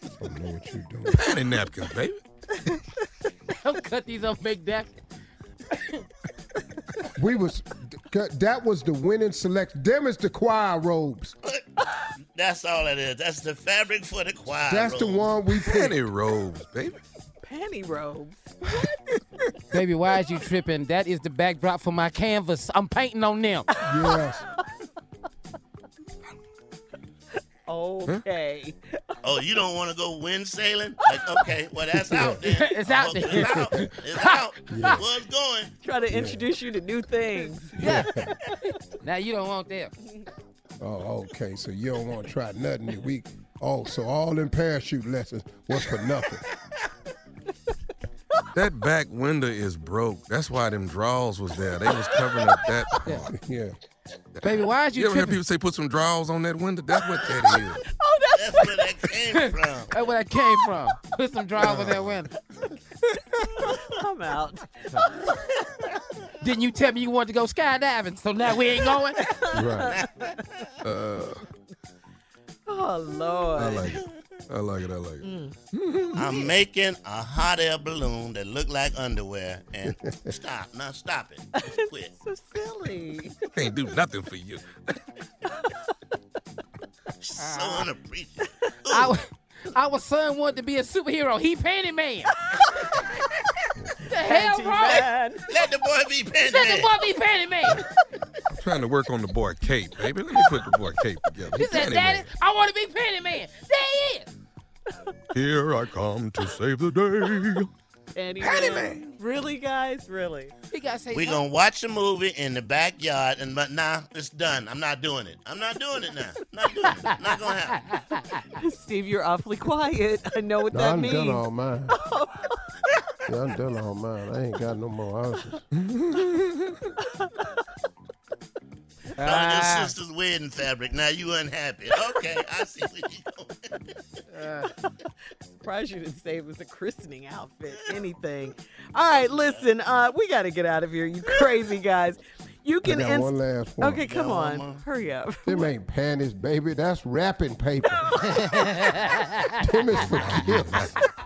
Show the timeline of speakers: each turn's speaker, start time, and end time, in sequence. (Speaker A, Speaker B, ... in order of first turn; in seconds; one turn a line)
Speaker A: 0.2-1.2
Speaker B: 1.1-2.2
Speaker C: 2.7-3.0
Speaker D: 3.6-5.0
Speaker D: 5.7-6.0
Speaker A: 7.1-11.3
Speaker E: 12.3-15.3
Speaker A: 14.7-16.0
Speaker B: 15.7-17.0
Speaker C: 17.4-19.0
Speaker D: 19.7-23.7
Speaker C: 23.8-24.6
Speaker A: 23.8-24.4
Speaker C: 27.6-29.2
Speaker E: 29.2-35.8
Speaker A: 31.9-32.4
Speaker D: 32.5-35.0
Speaker A: 33.4-33.9
Speaker A: 34.7-35.0
Speaker C: 35.8-38.3
Speaker A: 36.1-36.5
Speaker A: 37.8-38.3
Speaker D: 39.0-40.0
Speaker A: 40.8-46.4
Speaker B: 48.5-53.3
Speaker C: 51.9-52.5
Speaker A: 53.2-53.7
Speaker B: 54.4-57.8
Speaker D: 54.4-55.4
Speaker C: 57.2-59.1
Speaker E: 58.4-60.1
Speaker D: 59.3-62.3
Speaker B: 61.6-62.0
Speaker C: 63.1-65.9
Speaker D: 66.4-69.3
Speaker C: 68.7-70.4
Speaker B: 69.5-70.0
Speaker E: 69.8-70.7
Speaker B: 70.8-71.5
Speaker C: 72.7-74.0
Speaker B: 73.6-76.2
Speaker C: 75.2-75.5
Speaker E: 76.2-82.1
Speaker C: 81.5-83.5
Speaker B: 83.5-85.0
Speaker C: 85.5-85.9
Speaker E: 87.2-89.1
Speaker D: 87.4-87.8
Speaker D: 88.9-92.5
Speaker C: 92.4-93.2
Speaker D: 94.0-95.0
Speaker C: 94.1-95.5
Speaker E: 95.5-97.0
Speaker D: 96.4-97.8
Speaker B: 98.5-102.3
Speaker D: 101.5-104.3
Speaker B: 105.3-107.7
Speaker C: 108.1-110.5
Speaker D: 108.4-109.0
Speaker D: 110.7-111.5
Speaker E: 111.1-118.1
Speaker C: 118.5-122.6
Speaker A: 120.7-122.0
Speaker A: 123.3-125.6
Speaker B: 125.9-126.5
Speaker C: 127.0-127.6
Speaker D: 129.2-129.9
Speaker E: 129.2-134.2
Speaker D: 134.3-134.7
Speaker C: 135.6-145.7
Speaker A: 142.8-144.0
Speaker E: 144.0-144.8
Speaker A: 145.4-148.3
Speaker C: 148.0-149.2
Speaker A: 149.5-150.9
Speaker B: 150.1-150.9